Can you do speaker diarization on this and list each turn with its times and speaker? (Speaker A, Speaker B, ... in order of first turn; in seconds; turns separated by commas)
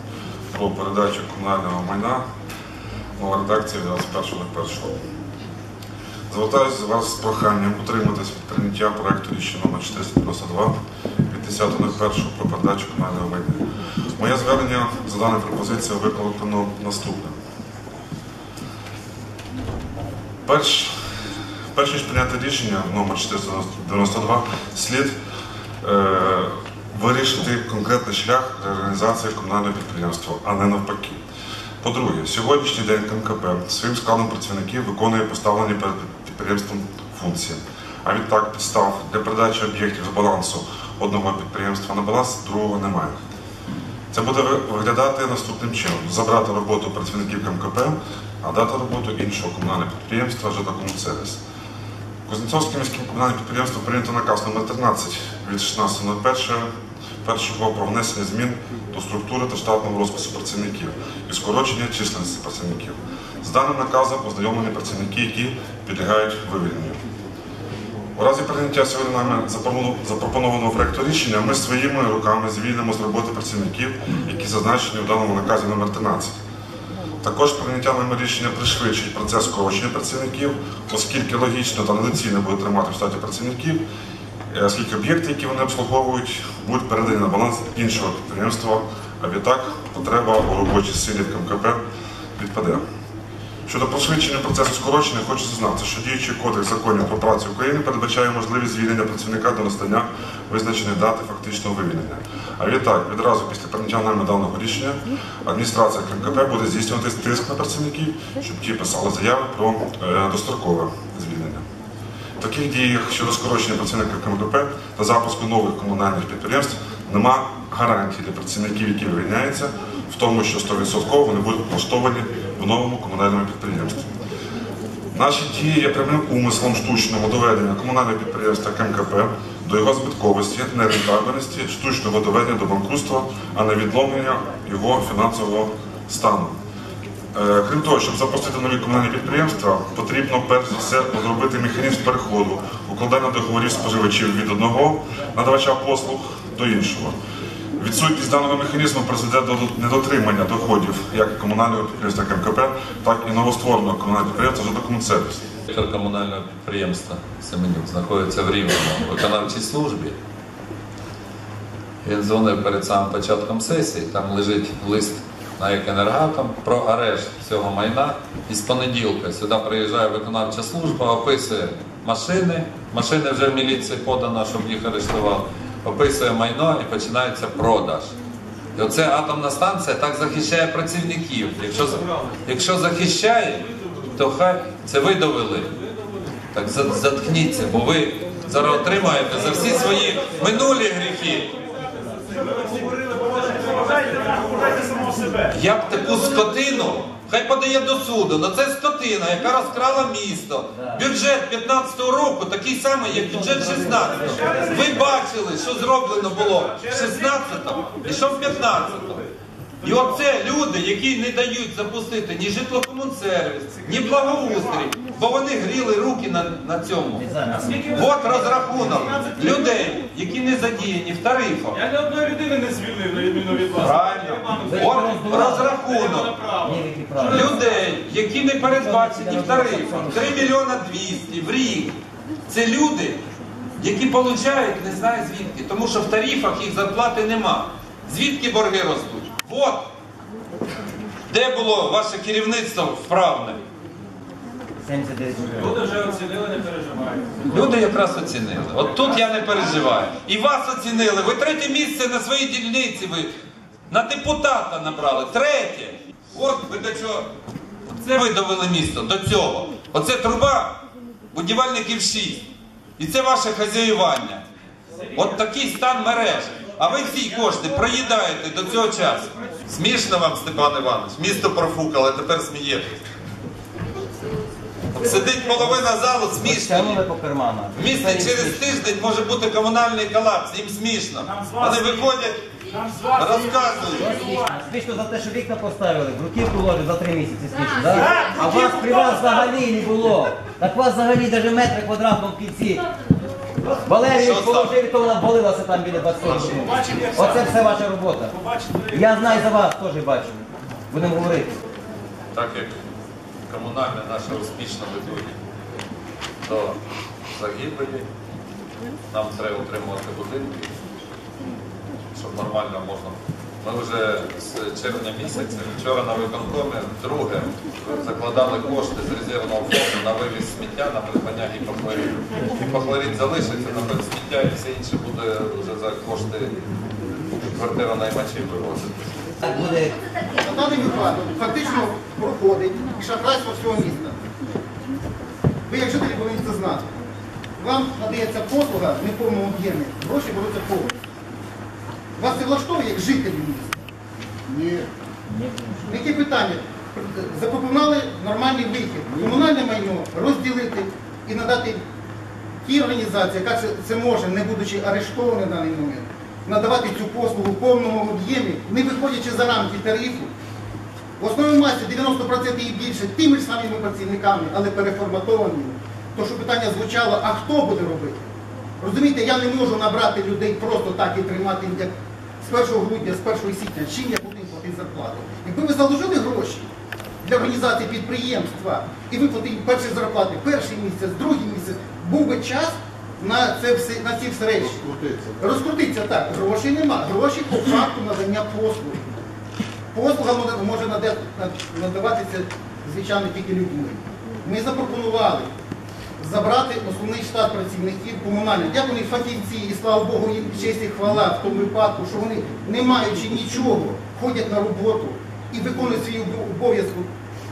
Speaker A: 0.5-2.2, Speaker A: 3.2-5.0, Speaker A: 6.3-10.7, Speaker A: 11.3-13.6, Speaker A: 14.2-17.3, Speaker A: 20.4-20.9, Speaker A: 21.7-25.1, Speaker A: 25.8-31.2, Speaker A: 31.8-43.2, Speaker A: 44.1-51.4, Speaker A: 52.3-56.7, Speaker A: 57.2-67.0, Speaker A: 68.2-76.4, Speaker A: 77.2-83.8, Speaker A: 84.5-91.8, Speaker A: 92.3-92.8, Speaker A: 93.7-111.6, Speaker A: 112.4-124.0, Speaker A: 125.1-136.5, Speaker A: 137.3-147.2, Speaker A: 147.8-155.4, Speaker B: 155.7-160.2, Speaker B: 162.0-178.1, Speaker B: 178.7-185.7, Speaker B: 186.5-191.5, Speaker C: 192.8-195.4, Speaker B: 195.5-209.2, Speaker D: 200.7-201.0, Speaker D: 203.1-204.9, Speaker B: 209.8-221.8, Speaker D: 217.2-219.3, Speaker C: 221.9-223.7, Speaker B: 223.7-226.4, Speaker D: 224.7-225.7, Speaker D: 226.6-227.6, Speaker B: 227.2-233.2, Speaker D: 228.8-230.4, Speaker B: 233.8-239.9, Speaker B: 241.3-243.6, Speaker D: 244.8-245.8, Speaker C: 245.7-247.4, Speaker B: 247.4-253.3, Speaker B: 253.9-257.3, Speaker B: 258.0-260.8, Speaker B: 261.3-262.5, Speaker B: 263.0-264.4, Speaker B: 265.1-273.0, Speaker B: 274.9-277.0, Speaker D: 276.4-278.6, Speaker B: 277.7-284.4, Speaker D: 284.0-292.8, Speaker D: 293.8-298.4, Speaker B: 294.1-294.7, Speaker D: 298.9-301.6, Speaker B: 302.3-302.8, Speaker B: 303.5-305.4, Speaker B: 306.4-306.8, Speaker B: 307.3-308.1, Speaker B: 309.1-310.7, Speaker B: 312.1-326.6, Speaker B: 327.5-328.9, Speaker D: 329.4-329.9, Speaker E: 330.4-334.3, Speaker E: 335.7-336.9, Speaker E: 337.6-340.9, Speaker E: 342.2-343.8, Speaker E: 344.4-344.9, Speaker D: 345.4-345.8, Speaker E: 345.9-351.8, Speaker E: 352.6-360.3, Speaker E: 361.2-368.3, Speaker E: 368.8-376.7, Speaker E: 377.2-389.1, Speaker E: 389.9-395.5, Speaker E: 396.2-407.1